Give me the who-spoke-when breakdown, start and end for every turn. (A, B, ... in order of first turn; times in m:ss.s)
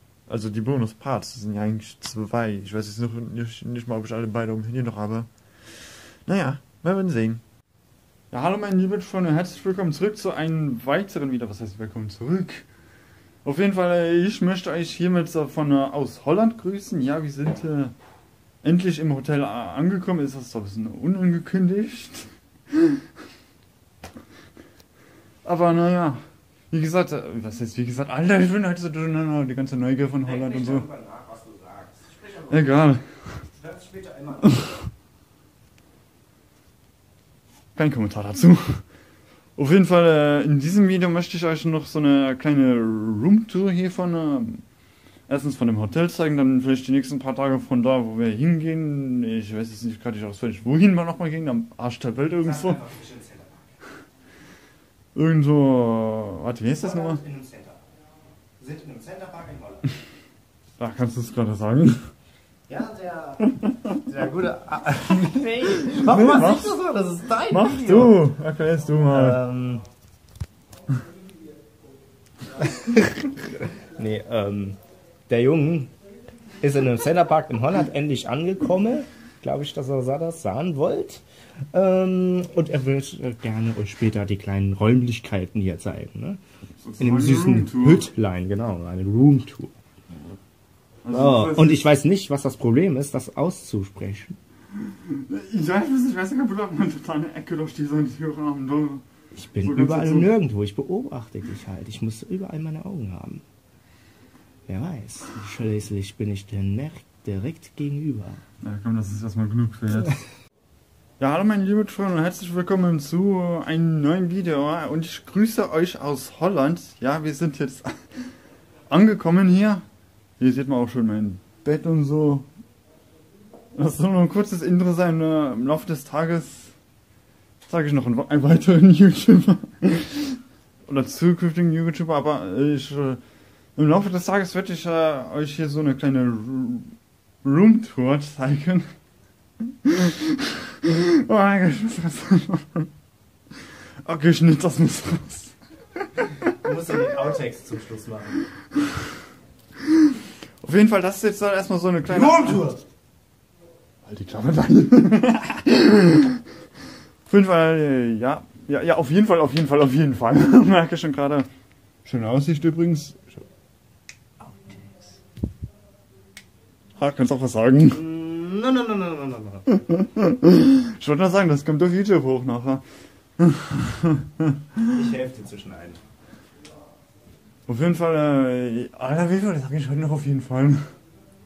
0:00.3-0:07.4 A
0:08.3-0:12.6 A
0:13.4-0:17.9 A
0:18.6-0:22.3 A
0:25.4-0:30.8 A
0:30.2-0:32.6 B
0:32.5-0:33.4 A
0:33.5-0:34.6 B
0:37.8-0:38.8 A
0:39.6-0:44.6 A
0:45.3-0:52.8 A
0:52.4-0:53.8 B
0:55.1-0:57.2 A
0:56.8-0:57.8 B
0:58.6-0:59.9 B
1:00.8-1:02.0 A
1:02.7-1:08.2 B
1:05.9-1:06.8 A
1:07.5-1:09.4 A
1:09.1-1:09.8 B
1:12.6-1:15.9 B
1:16.6-1:26.4 B
1:26.8-1:28.1 A
1:27.0-1:29.7 B
1:31.0-1:31.8 A
1:31.1-1:34.4 B
1:35.0-1:39.0 A
1:39.3-1:43.4 B
1:39.6-1:40.3 A
1:44.7-1:48.4 B
1:48.6-1:50.2 A
1:51.2-1:58.3 A
1:58.9-1:59.8 A
2:00.4-2:02.4 A
2:03.7-2:06.7 A
2:07.7-2:13.2 A
2:13.8-2:18.8 A
2:19.8-2:22.9 A
2:24.0-2:25.5 A
2:26.4-2:28.4 B
2:30.6-2:32.7 A
2:32.0-2:32.8 B
2:34.0-2:36.4 A
2:37.3-2:41.5 A
2:42.0-2:43.4 A
2:44.4-2:45.1 B
2:47.0-2:48.0 A
2:47.9-2:49.8 B
2:50.0-2:52.8 A
2:53.4-2:54.8 A
2:54.9-2:56.0 B
2:57.7-3:00.9 A